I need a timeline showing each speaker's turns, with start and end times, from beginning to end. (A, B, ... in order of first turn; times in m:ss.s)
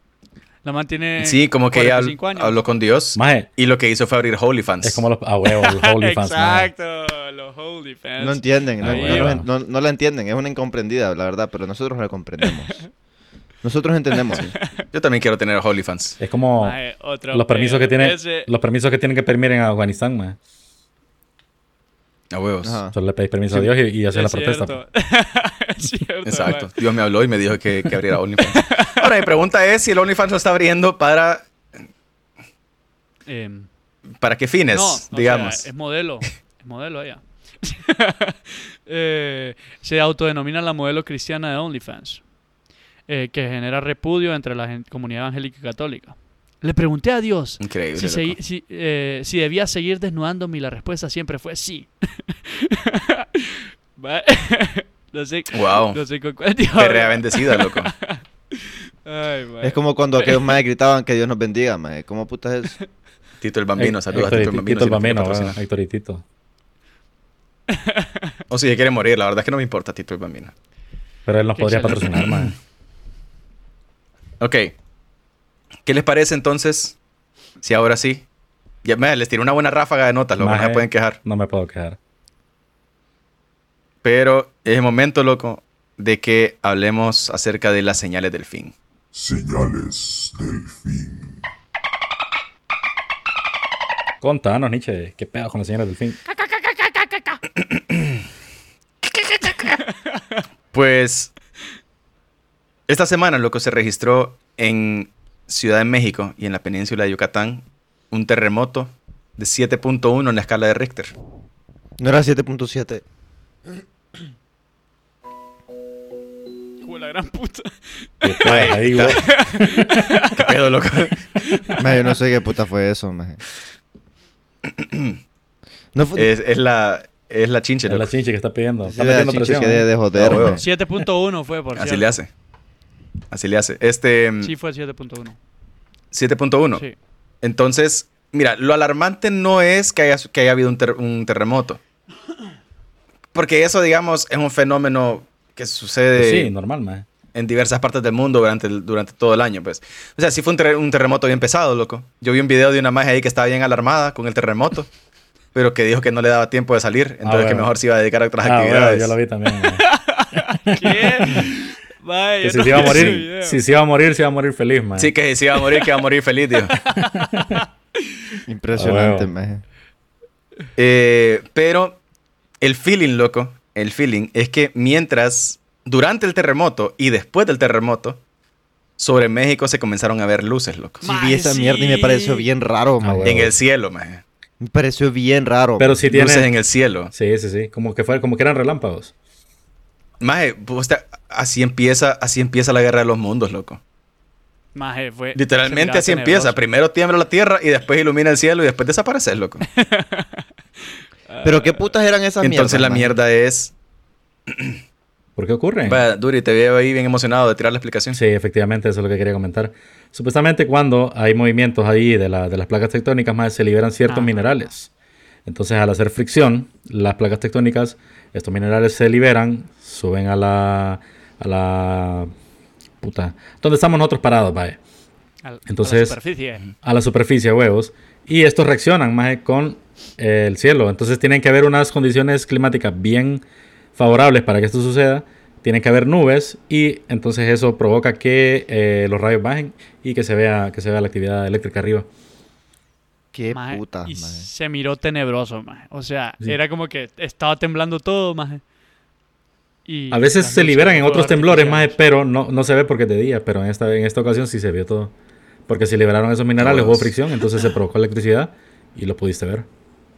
0:00.6-0:02.6 A
0:01.2-0:05.0 B
0:03.2-0:03.5 C
0:04.8-0:06.7 C
0:05.5-0:09.3 A
0:08.2-0:12.9 D
0:08.8-0:09.5 C
0:09.1-0:09.4 B
0:12.4-0:12.9 A
0:13.6-0:14.5 D
0:14.2-0:14.9 A
0:14.4-0:16.2 B
0:16.2-0:20.4 C
0:16.6-0:18.5 A
0:22.3-0:22.8 B
0:22.6-0:23.0 D
0:22.9-0:24.8 C
0:24.1-0:26.7 A
0:26.2-0:31.5 B
0:28.6-0:28.9 A
0:33.3-0:33.7 A
0:34.2-0:35.7 B
0:34.7-0:42.3 A
0:43.1-1:00.6 A
0:47.6-0:48.4 B
0:55.5-0:56.0 B
0:56.8-0:57.9 B
0:59.6-1:02.8 D
1:03.4-1:05.6 B
1:03.8-1:06.2 C
1:07.7-1:08.4 A
1:08.5-1:10.5 B
1:11.3-1:12.6 C
1:11.6-1:12.1 A
1:12.1-1:12.5 B
1:14.4-1:14.7 B
1:15.8-1:17.0 B
1:17.6-1:18.2 B
1:18.8-1:21.2 B
1:20.4-1:22.0 C
1:24.0-1:28.7 B
1:29.1-1:31.3 E
1:34.2-1:36.2 C
1:36.3-1:37.4 A
1:37.9-1:38.2 B
1:39.0-1:39.8 B
1:39.9-1:40.4 A
1:40.7-1:41.3 B
1:42.9-1:51.1 B
1:52.0-1:53.0 D
1:56.8-2:00.5 A
1:58.2-1:59.9 C
1:58.4-1:59.2 B
2:00.4-2:01.8 B
2:01.4-2:02.0 A
2:01.8-2:03.4 D
2:04.7-2:05.2 B
2:05.9-2:06.3 D
2:06.2-2:08.1 B
2:07.9-2:09.9 C
2:08.8-2:10.6 D
2:10.2-2:10.6 B
2:10.5-2:12.1 A
2:11.8-2:12.3 B
2:13.3-2:14.5 B
2:14.4-2:15.4 A
2:16.1-2:16.8 B
2:17.4-2:21.8 B
2:23.3-2:26.5 B
2:26.2-2:27.0 C
2:27.3-2:34.9 B
2:35.5-2:39.2 B
2:37.2-2:37.7 C
2:38.4-2:39.8 C
2:39.6-2:43.6 A
2:40.9-2:41.5 C
2:42.4-2:45.1 C
2:42.8-2:43.2 B
2:45.0-2:46.8 B
2:46.7-2:48.2 A
2:47.0-2:47.6 C
2:48.5-2:49.6 D
2:48.8-2:49.3 C
2:50.8-2:52.0 B
2:52.6-2:58.2 B
2:59.0-3:01.0 B
3:01.0-3:02.5 A
3:01.0-3:03.5 D
3:03.0-3:03.5 C
3:03.2-3:04.2 B
3:04.6-3:06.0 D
3:05.8-3:06.5 C
3:06.1-3:07.1 B
3:07.1-3:09.1 C
3:10.2-3:13.8 B
3:14.8-3:16.6 A
3:15.4-3:19.6 B
3:19.8-3:20.5 A
3:21.3-3:21.9 A
3:21.4-3:23.1 D
3:22.4-3:23.7 B
3:24.5-3:24.8 B
3:25.4-3:26.0 C
3:25.8-3:28.2 B
3:28.1-3:34.9 C
3:34.1-3:34.7 A
3:35.5-3:42.3 C
3:43.0-3:44.8 C
3:45.4-3:46.6 A
3:45.7-3:46.2 C
3:46.8-3:53.4 C
3:54.0-4:02.1 C
4:03.3-4:04.5 D
4:03.5-4:08.6 A
4:09.9-4:12.0 A
4:10.1-4:15.1 C
4:15.7-4:19.7 C
4:16.6-4:17.1 B